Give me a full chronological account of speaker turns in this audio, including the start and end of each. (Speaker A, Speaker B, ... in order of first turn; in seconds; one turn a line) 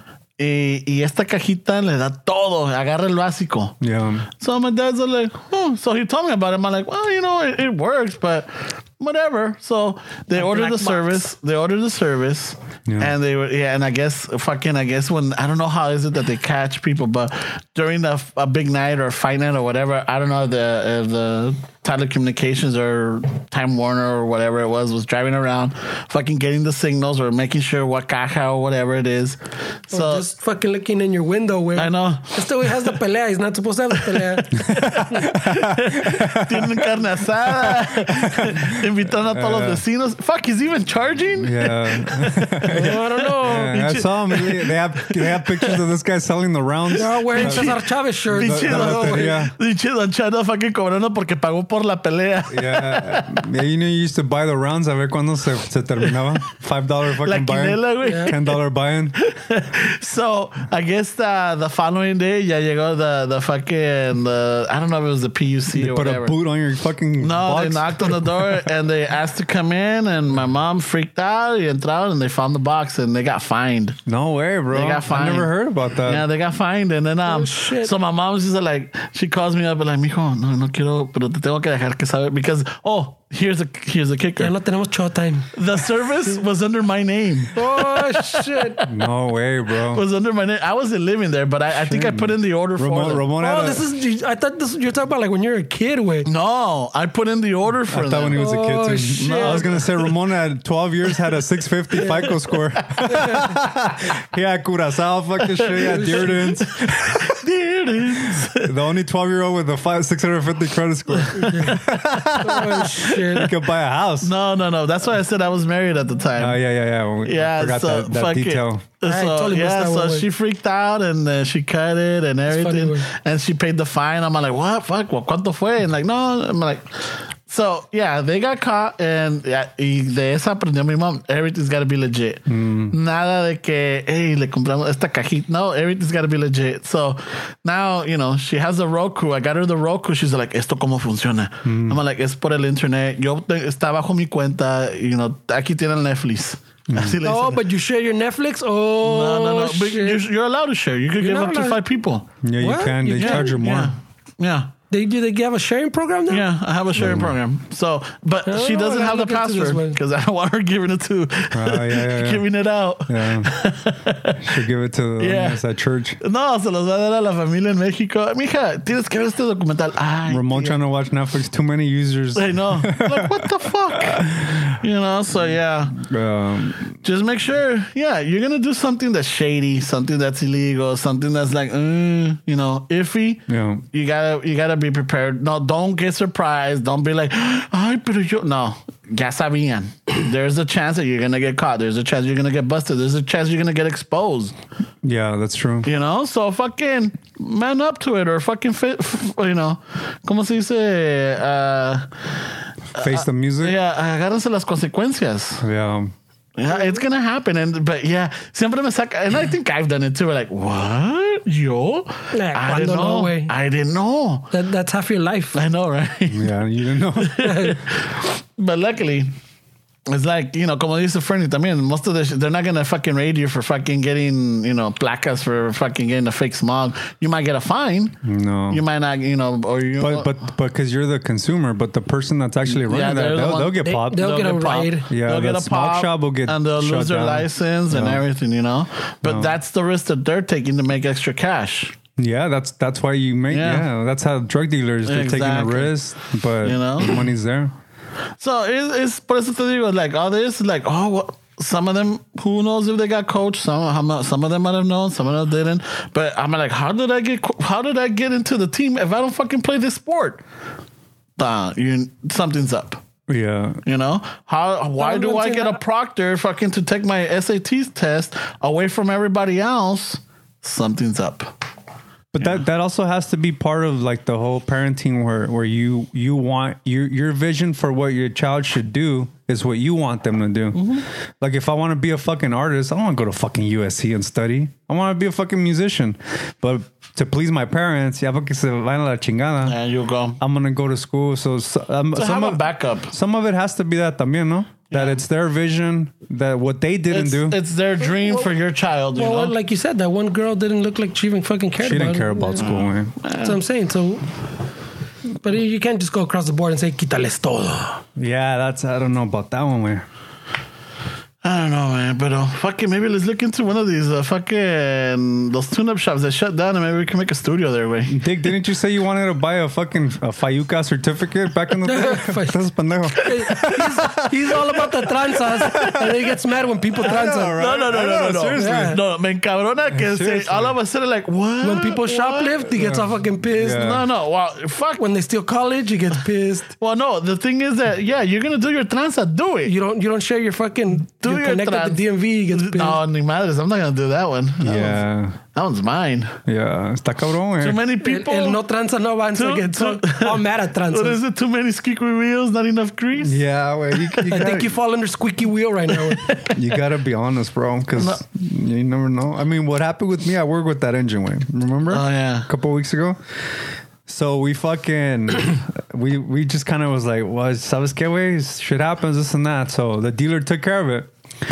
Speaker A: 0.4-3.8
Speaker B: 3.8-4.3
Speaker A: 4.4-30.3
Speaker C: 10.3-11.2
Speaker B: 12.9-13.1
Speaker C: 29.9-35.3
Speaker A: 31.8-33.0
Speaker A: 34.0-45.8
Speaker B: 34.5-39.8
Speaker B: 41.4-47.8
Speaker C: 42.6-44.0
Speaker A: 46.9-53.4
Speaker C: 47.0-49.4
Speaker B: 48.4-49.5
Speaker B: 52.5-59.1
Speaker A: 57.2-58.5
Speaker C: 58.0-58.3
Speaker A: 59.2-66.3
Speaker B: 65.7-68.7
Speaker A: 67.2-74.0
Speaker B: 74.1-76.2
Speaker A: 74.7-75.5
Speaker A: 76.0-84.5
Speaker C: 77.3-77.9
Speaker C: 84.4-85.5
Speaker A: 85.5-88.9
Speaker C: 87.5-88.8
Speaker B: 88.8-90.0
Speaker A: 89.9-93.3
Speaker B: 91.8-93.8
Speaker C: 93.4-96.3
Speaker A: 96.2-98.4
Speaker B: 97.9-107.4
Speaker C: 98.3-99.7
Speaker A: 99.2-100.0
Speaker A: 102.0-102.3
Speaker C: 102.0-102.3
Speaker C: 103.1-103.5
Speaker A: 105.5-108.8
Speaker C: 105.7-106.5
Speaker B: 108.4-114.3
Speaker A: 111.2-113.5
Speaker C: 111.4-113.5
Speaker A: 114.2-116.6
Speaker B: 116.4-118.8
Speaker A: 117.2-147.6
Speaker C: 119.0-120.3
Speaker C: 122.5-123.1
Speaker B: 132.5-132.9
Speaker B: 141.7-142.0
Speaker B: 146.9-147.2
Speaker C: 147.2-150.2
Speaker A: 149.0-152.3
Speaker C: 151.2-151.8
Speaker B: 152.4-153.9
Speaker C: 152.6-153.5
Speaker A: 153.2-154.7
Speaker C: 154.9-156.5
Speaker A: 156.3-164.6
Speaker B: 157.0-157.3
Speaker C: 158.5-160.0
Speaker B: 161.5-162.4
Speaker B: 163.1-163.5
Speaker B: 164.4-166.2
Speaker A: 165.2-165.6
Speaker A: 166.2-170.8
Speaker B: 170.3-174.8
Speaker A: 172.3-176.0
Speaker B: 175.9-177.0
Speaker A: 177.0-194.6
Speaker B: 183.5-183.8
Speaker B: 195.0-195.9
Speaker A: 195.8-205.6
Speaker B: 203.0-203.8
Speaker B: 205.6-206.1
Speaker A: 206.6-214.5
Speaker C: 212.3-213.5
Speaker C: 214.5-215.6
Speaker A: 215.5-216.5
Speaker B: 216.3-217.5
Speaker A: 217.2-219.3
Speaker C: 217.4-217.8
Speaker A: 220.1-228.2
Speaker B: 228.2-228.8
Speaker A: 228.7-230.4
Speaker B: 230.0-234.3
Speaker A: 232.7-242.0
Speaker C: 233.8-235.1
Speaker B: 235.1-238.2
Speaker B: 239.2-239.5
Speaker B: 242.2-247.7
Speaker A: 243.5-243.9
Speaker A: 245.1-245.9
Speaker A: 246.6-247.2
Speaker A: 248.4-260.4
Speaker A: 261.4-263.0
Speaker B: 263.3-263.8
Speaker A: 263.9-271.5
Speaker C: 265.0-265.8
Speaker B: 272.3-289.8
Speaker A: 280.7-281.1
Speaker A: 289.6-290.4
Speaker B: 290.4-297.6
Speaker A: 292.1-293.1
Speaker A: 294.9-295.2
Speaker A: 297.1-299.5
Speaker C: 299.2-302.7
Speaker B: 301.8-303.1
Speaker A: 302.6-303.6
Speaker C: 303.4-304.3
Speaker C: 305.4-308.0
Speaker B: 308.2-310.1
Speaker A: 311.4-318.2
Speaker B: 318.1-324.6
Speaker C: 321.9-322.6
Speaker A: 323.2-323.8
Speaker C: 323.2-327.7
Speaker B: 325.5-326.2
Speaker B: 327.0-329.0
Speaker A: 327.6-332.7
Speaker C: 328.6-329.0
Speaker B: 329.9-330.8
Speaker C: 331.6-333.9
Speaker B: 332.8-334.0
Speaker A: 333.6-335.1
Speaker C: 335.0-336.7
Speaker A: 336.8-339.7
Speaker C: 339.6-343.0
Speaker A: 341.2-345.0
Speaker B: 344.6-345.4
Speaker A: 345.5-346.4
Speaker B: 346.5-347.8
Speaker A: 347.6-348.6
Speaker C: 348.0-351.2
Speaker A: 349.3-353.4
Speaker B: 353.2-354.7
Speaker C: 354.2-356.4
Speaker A: 355.9-356.6
Speaker B: 356.5-363.2
Speaker A: 358.0-358.2
Speaker A: 361.9-362.5
Speaker B: 364.1-371.1